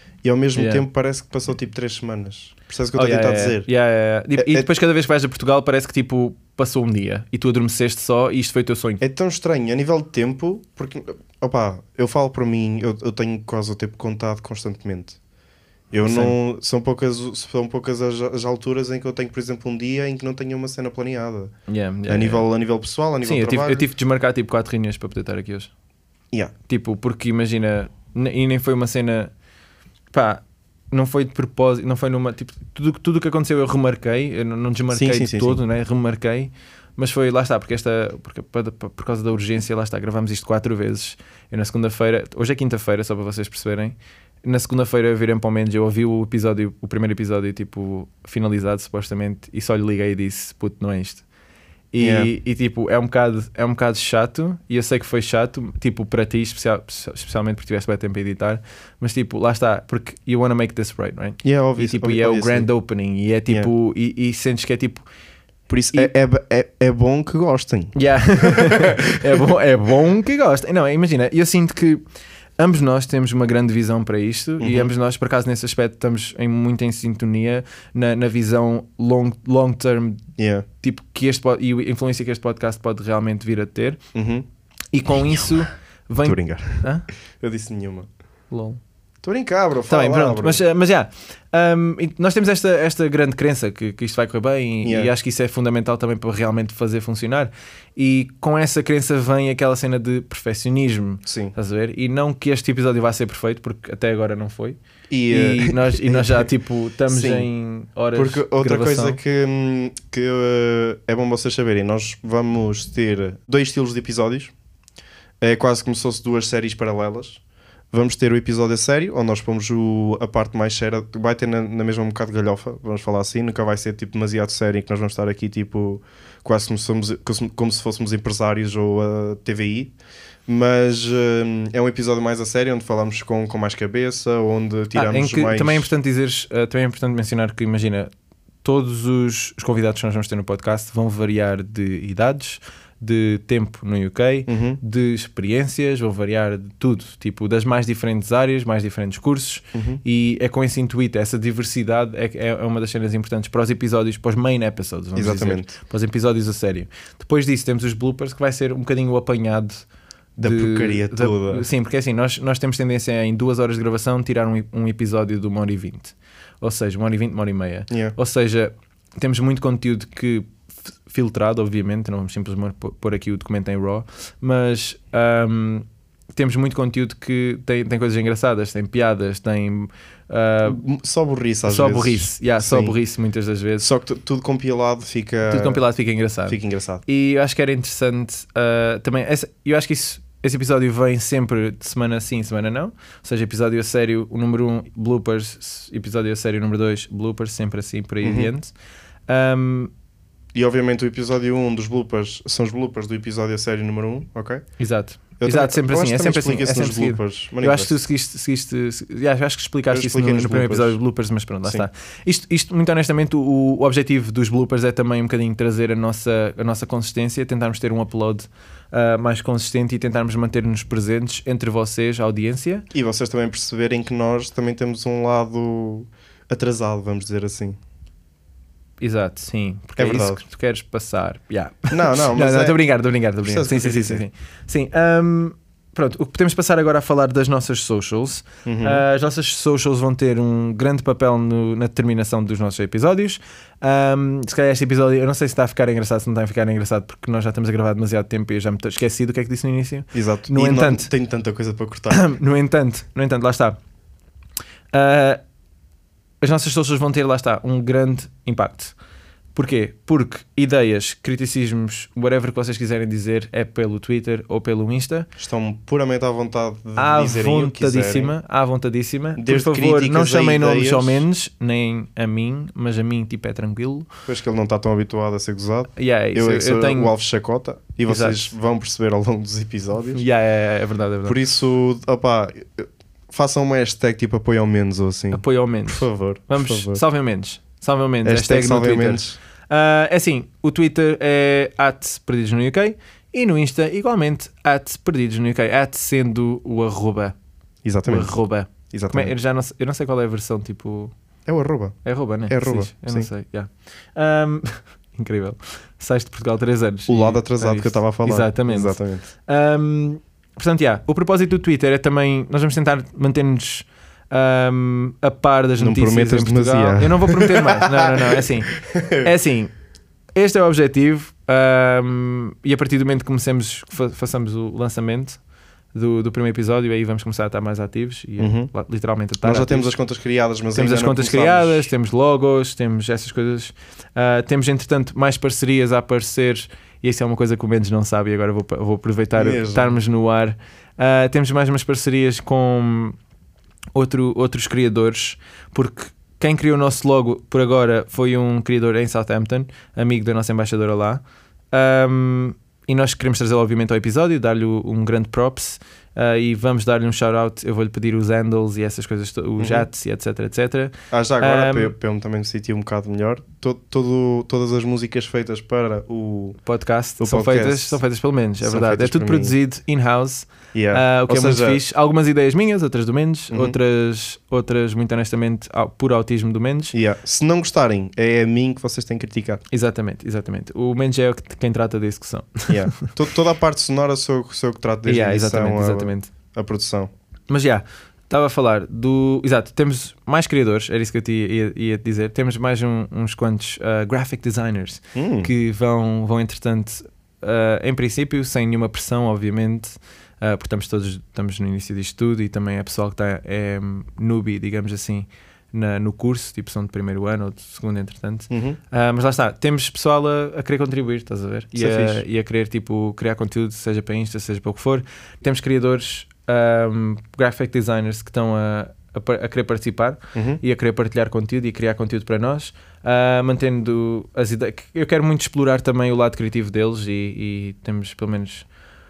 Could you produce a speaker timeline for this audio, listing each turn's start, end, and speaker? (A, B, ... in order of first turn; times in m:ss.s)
0:00.2-0:03.7 A
0:00.5-0:00.8 B
0:02.9-0:09.0 B
0:04.4-0:04.7 A
0:09.0-0:15.2 A
0:15.9-0:21.5 A
0:16.0-0:16.4 B
0:21.7-0:22.5 B
0:22.1-0:23.9 A
0:23.2-0:25.7 B
0:26.7-0:29.3 B
0:30.1-0:51.2 B
0:34.9-0:35.6 A
0:51.9-1:05.0 B
0:52.0-0:52.3 A
1:01.4-1:02.7 A
1:05.7-1:08.9 A
1:07.9-1:12.0 B
1:12.6-1:20.2 B
1:14.6-1:14.9 A
1:20.4-1:20.6 A
1:20.8-1:24.0 B
1:24.1-1:24.4 A
1:24.9-1:27.0 B
1:26.2-1:26.9 A
1:27.4-1:28.1 A
1:28.5-1:28.8 B
1:29.2-1:30.6 A
1:29.9-1:44.8 B
1:34.8-1:35.1 A
1:41.2-1:41.5 A
1:45.1-1:46.5 A
1:45.3-1:49.2 B
1:47.1-1:47.5 A
1:48.1-1:54.5 A
1:55.4-1:57.4 A
1:57.9-2:09.9 A
2:10.5-2:15.9 A
2:14.9-2:18.1 B
2:18.6-2:39.8 B
2:24.5-2:24.8 A
2:29.7-2:30.0 A
2:35.1-2:35.7 A
2:40.4-2:50.5 B
2:40.4-2:41.7 A
2:47.9-2:48.1 A
2:51.1-3:00.8 B
3:00.6-3:03.0 A
3:01.6-3:03.9 B
3:03.8-3:05.8 A
3:05.4-3:18.7 B
3:06.5-3:07.0 A
3:18.2-3:18.5 A
3:19.3-3:19.9 B
3:20.5-3:24.6 A
3:24.8-3:42.8 B
3:25.4-3:28.0 A
3:29.9-3:31.0 A
3:42.9-3:47.8 A
3:49.0-4:11.1 B
3:50.0-3:50.4 A
3:51.9-3:52.8 A
3:53.4-3:54.2 A
3:58.6-3:59.0 A
4:10.1-4:12.2 A
4:12.1-4:13.8 B
4:14.9-4:15.4 B
4:16.4-4:18.9 B
4:19.5-4:25.3 B
4:25.4-4:28.3 A
4:27.0-4:34.1 B
4:29.4-4:31.2 A
4:34.3-4:40.2 A
4:36.0-4:37.1 B
4:38.1-4:38.5 B
4:40.1-4:41.4 B
4:41.2-4:47.0 A
4:45.3-4:57.3 B
4:48.2-4:49.4 A
4:57.8-4:58.4 A
4:58.0-5:01.1 B
4:58.9-4:59.3 A
5:01.4-5:02.0 A
5:02.0-5:19.7 B
5:02.5-5:03.3 A
5:07.1-5:09.3 A
5:15.8-5:19.3 A
5:20.4-5:25.4 B
5:25.9-5:30.0 B
5:28.4-5:28.7 A
5:29.4-5:31.9 A
5:30.7-5:43.2 B
5:39.4-5:40.0 A
5:43.9-5:51.2 B
5:51.7-6:01.9 B
5:59.6-5:59.9 A
6:01.1-6:06.6 A
6:06.6-6:17.0 B
6:07.2-6:08.0 A
6:08.6-6:09.5 A
6:10.7-6:11.8 A
6:13.5-6:13.8 A
6:16.9-6:19.6 A
6:19.7-6:23.1 B
6:22.7-6:27.1 A
6:25.0-6:26.3 B
6:27.5-7:08.6 B
6:35.1-6:35.5 A
6:48.5-6:48.8 A
6:51.7-6:52.2 A
7:00.3-7:00.6 A